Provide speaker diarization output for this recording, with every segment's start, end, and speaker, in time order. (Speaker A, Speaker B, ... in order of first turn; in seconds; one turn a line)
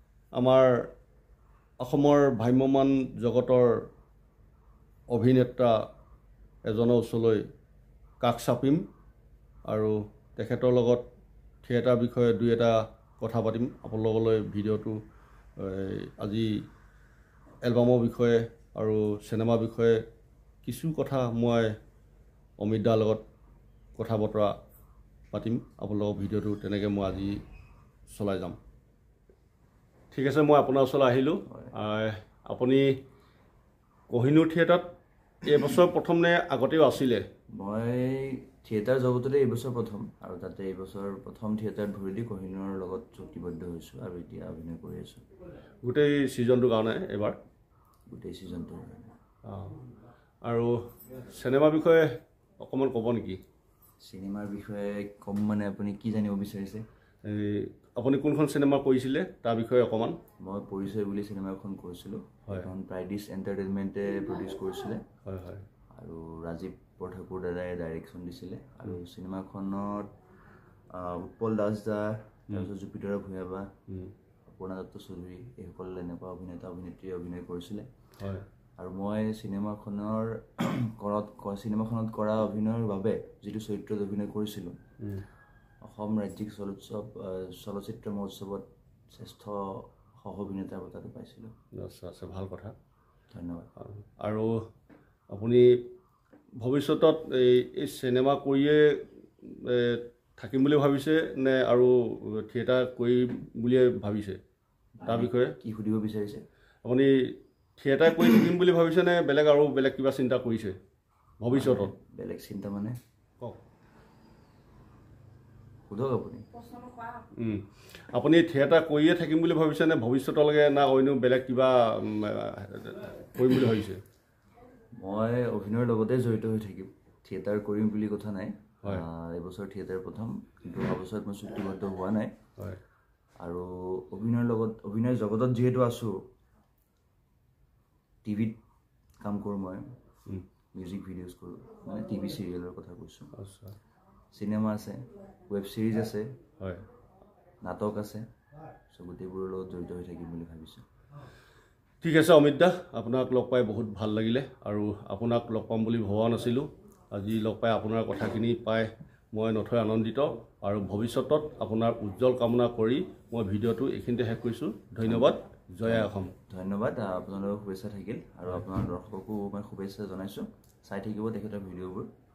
Speaker A: 0.4-0.9
Speaker A: 1.8-3.8
Speaker A: 5.1-5.8
Speaker A: 6.7-7.4
Speaker A: 8.2-8.8
Speaker A: 9.7-11.0
Speaker A: 11.6-15.0
Speaker A: 15.6-16.5
Speaker A: 17.6-20.0
Speaker A: 20.6-21.7
Speaker A: 22.6-23.2
Speaker A: 24.0-24.5
Speaker A: 25.3-27.4
Speaker A: 28.1-28.6
Speaker A: 30.1-32.9
Speaker B: 31.5-31.7
Speaker A: 34.1-34.9
Speaker A: 35.4-37.2
Speaker B: 37.5-45.2
Speaker A: 45.8-47.4
Speaker B: 48.1-49.0
Speaker A: 49.4-49.8
Speaker A: 50.4-53.4
Speaker B: 54.0-56.8
Speaker A: 57.2-60.2
Speaker B: 60.4-65.0
Speaker A: 65.2-65.6
Speaker B: 66.0-70.1
Speaker B: 70.9-73.7
Speaker B: 74.5-77.9
Speaker A: 78.2-78.5
Speaker B: 78.8-84.8
Speaker A: 85.0-85.2
Speaker B: 85.8-91.5
Speaker A: 91.8-92.7
Speaker B: 93.3-93.7
Speaker A: 93.8-94.5
Speaker A: 95.3-95.8
Speaker A: 96.6-104.4
Speaker B: 105.0-106.4
Speaker A: 105.0-105.5
Speaker A: 106.8-110.8
Speaker A: 111.4-111.9
Speaker B: 111.5-113.0
Speaker B: 115.9-116.8
Speaker A: 117.3-124.0
Speaker B: 125.0-132.3
Speaker B: 133.4-136.2
Speaker B: 138.2-138.6
Speaker B: 139.2-139.8
Speaker B: 140.7-143.3
Speaker A: 143.3-143.8
Speaker B: 144.3-146.3
Speaker B: 147.6-148.2
Speaker B: 148.9-150.8
Speaker A: 152.0-166.3
Speaker B: 165.0-172.1